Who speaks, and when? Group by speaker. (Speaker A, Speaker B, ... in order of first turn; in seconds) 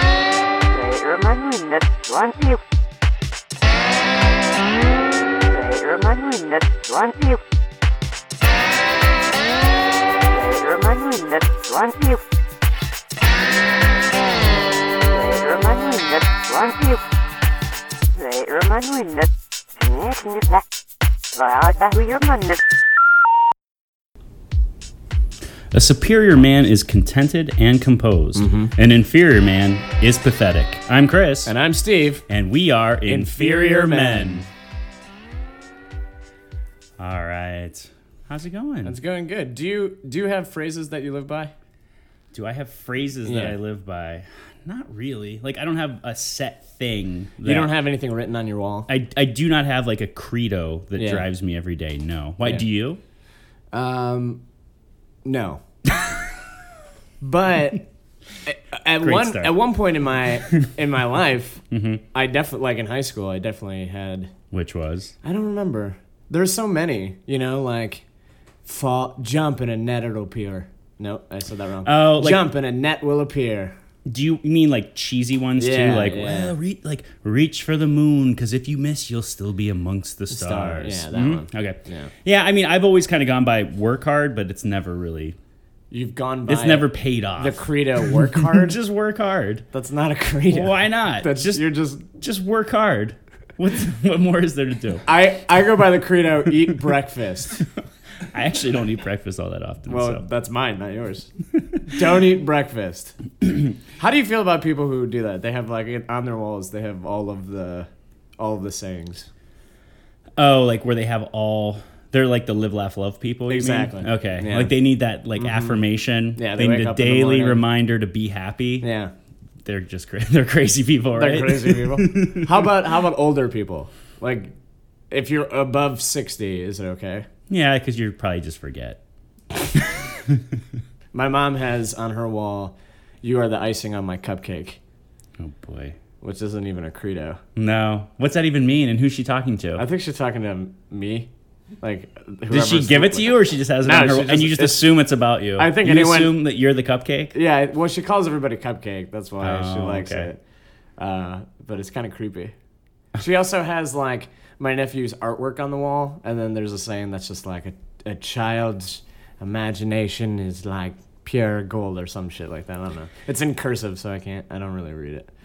Speaker A: 0.7-2.6, 5.5-7.4, 10.3-12.2, 15.1-17.0, 18.1-20.6, 21.3-22.6
Speaker B: 25.7-31.5, 32.3-34.5, 37.0-39.0, 42.3-47.7, 48.9-53.0, 59.0-59.6, 61.7-62.0, 64.5-65.1, 71.8-72.5, 74.0-85.4, 86.5-89.7, 90.5-95.1, 98.2-100.2, 110.4-118.9, 119.6-122.7, 127.5-129.0, 129.7-130.6, 135.4-136.0, 137.6-139.8, 142.5-147.3, 149.4-150.3
Speaker C: 28.3-28.7, 31.4-32.2, 33.0-34.5, 38.8-41.5, 43.2-43.5, 47.4-48.9, 51.0-51.2, 53.7-54.4, 55.2-55.6, 57.2-57.9, 58.4-61.6, 62.1-64.3, 65.2-68.0, 68.6-73.8, 75.6-76.5, 80.3-82.1, 85.9-88.8, 89.7-92.0, 95.0-97.6, 99.9-101.3, 101.8-103.2, 103.9-109.3, 113.5-114.7, 115.3-115.8, 116.3-117.6, 118.8-119.1, 121.1-124.5, 125.1-127.3, 131.1-134.8, 136.2-137.4, 139.8-144.9, 145.6-146.3, 147.3-150.4, 151.0-152.5, 153.1-165.3